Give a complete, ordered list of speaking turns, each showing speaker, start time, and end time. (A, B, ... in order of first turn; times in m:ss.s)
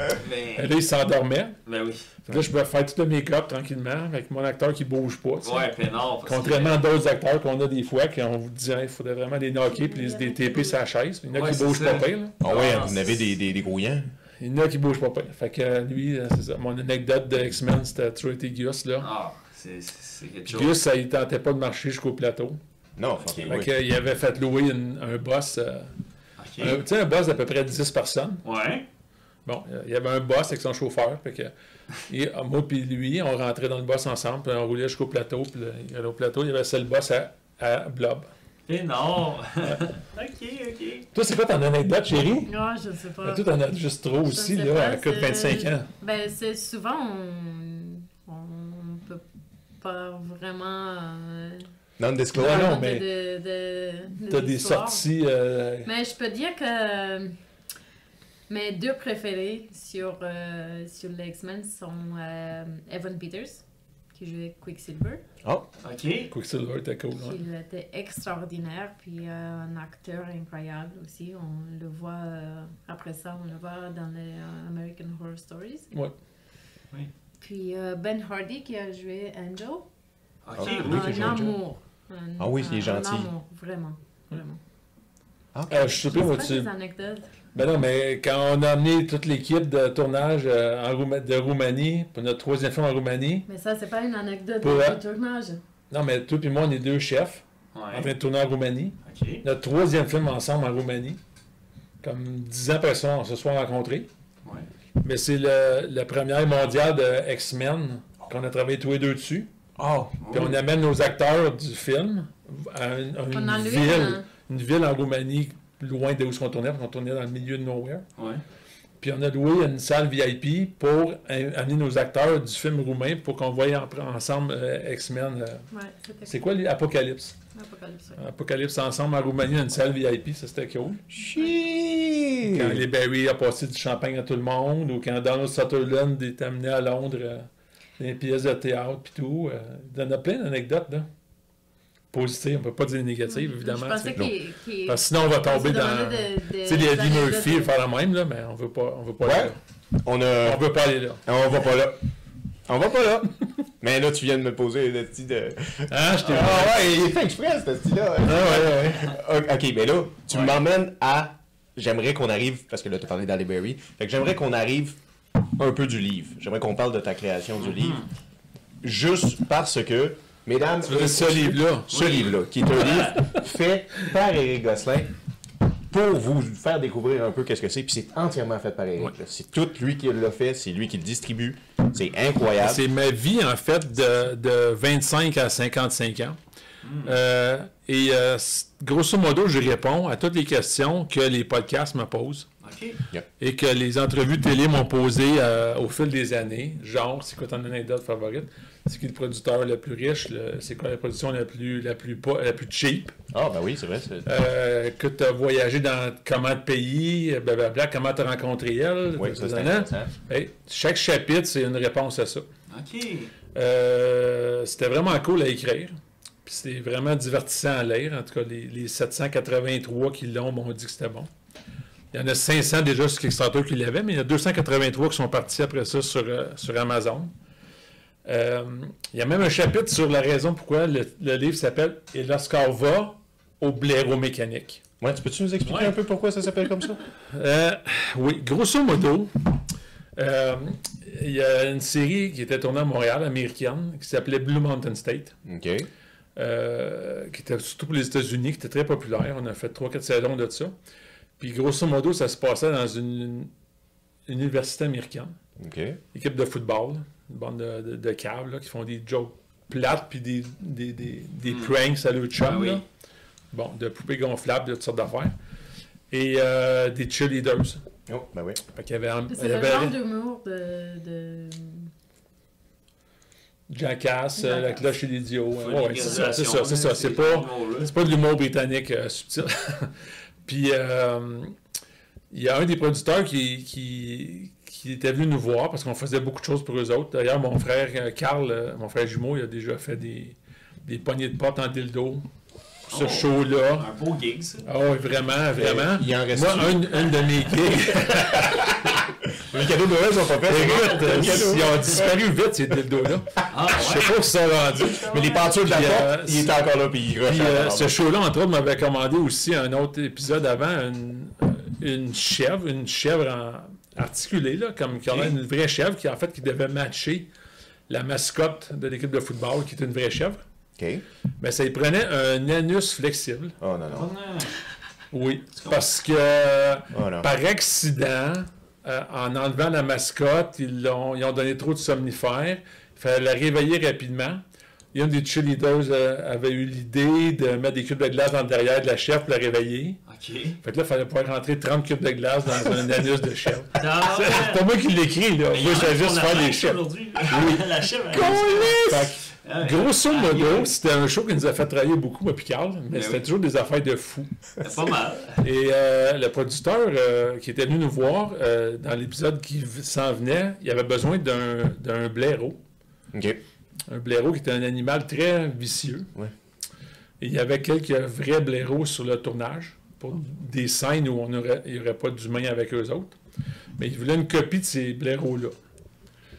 0:00.1-0:00.7 A
0:00.6-0:01.6 B
0:01.6-0:02.2 A
0:02.2-0:05.7 B
0:05.4-0:06.8 A
0:06.2-0:12.3 B
0:09.7-0:10.8 C
0:11.3-0:13.2 A
0:12.4-0:14.1 D
0:14.4-0:19.1 B
0:19.0-0:20.7 A
0:20.5-0:22.6 B
0:23.0-0:23.7 D
0:23.4-0:25.9 B
0:26.4-0:26.8 A
0:26.6-0:28.4 B
0:28.4-0:28.8 A
0:29.4-0:31.5 B
0:32.1-0:38.3 B
0:38.7-0:41.1 A
0:41.1-0:42.5 B
0:42.4-0:43.4 C
0:43.2-0:45.9 B
0:44.2-0:49.2 C
0:49.8-0:51.7 C
0:52.0-0:52.8 D
0:52.3-0:53.0 B
0:52.3-0:55.0 C
0:54.3-0:55.9 B
0:55.8-0:57.4 C
0:58.5-1:03.6 C
1:04.1-1:05.2 C
1:05.8-1:06.3 A
1:06.3-1:07.4 B
1:07.2-1:15.9 C
1:17.4-1:19.9 C
1:20.4-1:21.4 A
1:20.6-1:21.6 D
1:20.6-1:24.6 C
1:22.4-1:23.3 D
1:25.5-1:25.9 D
1:25.7-1:26.7 B
1:26.0-1:27.3 C
1:27.5-1:33.4 B
1:33.5-1:35.6 C
1:34.6-1:35.0 B
1:35.9-1:41.2 B
1:37.7-1:38.1 A
1:39.0-1:39.4 A
1:42.0-1:44.1 B
1:45.0-1:49.5 B
1:49.8-1:50.2 D
1:50.2-1:50.6 A
1:50.3-1:58.0 B
1:53.3-1:54.3 C
1:58.2-1:58.4 A
1:59.0-2:05.6 B
2:05.7-2:06.4 C
2:06.2-2:07.4 B
2:07.5-2:08.2 C
2:08.2-2:11.0 B
2:11.1-2:12.8 D
2:12.4-2:17.5 B
2:18.0-2:21.1 B
2:22.1-2:24.3 B
2:23.3-2:27.7 C
2:24.8-2:29.6 B
2:29.2-2:30.6 D
2:30.4-2:31.2 B
2:31.2-2:32.0 D
2:32.7-2:45.0 D
2:35.9-2:36.9 B
2:38.2-2:39.1 B
2:40.3-2:40.6 A
2:45.6-2:48.0 D
2:47.6-2:48.1 A
2:48.8-2:55.1 D
2:50.8-2:51.9 B
2:51.9-2:53.2 A
2:55.9-3:02.8 D
3:02.6-3:06.4 B
3:06.8-3:07.2 A
3:07.0-3:12.5 B
3:12.6-3:13.0 A
3:13.4-3:23.1 B
3:23.3-3:24.3 D
3:24.2-3:32.4 B
3:29.1-3:30.1 D
3:32.7-3:33.3 A
3:33.5-3:41.3 B
3:42.1-3:47.3 B
3:48.2-3:54.8 B
3:55.0-3:57.0 D
3:55.6-3:56.0 A
3:57.3-3:59.3 B
4:00.1-4:05.3 B
4:05.4-4:05.9 D
4:06.4-4:10.7 B
4:11.4-4:13.5 B
4:14.3-4:15.4 B
4:15.6-4:16.0 D
4:16.1-4:22.8 B
4:21.4-4:21.8 A
4:22.4-4:22.8 A
4:23.5-4:25.3 B
4:26.1-4:27.8 B
4:28.1-4:28.6 D
4:28.7-4:30.0 B
4:29.3-4:31.9 C
4:33.7-4:39.9 B
4:34.4-4:34.8 C
4:35.6-4:37.9 A
4:40.4-4:41.5 B
4:42.3-4:52.2 B
4:52.9-4:54.7 A
4:52.9-4:53.9 B
4:54.6-4:58.8 B
4:55.5-4:57.0 D
4:58.1-5:02.1 D
5:00.4-5:06.5 B
5:00.6-5:01.6 A
5:03.5-5:04.1 A
5:04.8-5:05.4 A
5:04.9-5:08.0 D
5:07.2-5:17.3 B
5:15.1-5:15.3 A
5:17.9-5:20.4 B
5:20.8-5:21.0 D
5:21.4-5:23.6 B
5:23.6-5:24.1 D
5:23.9-5:24.6 A
5:25.1-5:34.4 B
5:26.9-5:27.3 D
5:34.9-5:40.0 B
5:40.1-5:40.6 A
5:40.6-5:47.6 B
5:43.7-5:44.7 A
5:45.5-5:48.8 A
5:47.3-5:49.2 D
5:48.2-5:54.3 B
5:49.3-5:50.7 A
5:52.9-5:53.2 A
5:54.6-5:55.4 A
5:55.4-6:02.6 B
6:03.1-6:03.4 D
6:03.9-6:06.1 B
6:07.2-6:13.2 B
6:13.8-6:15.5 B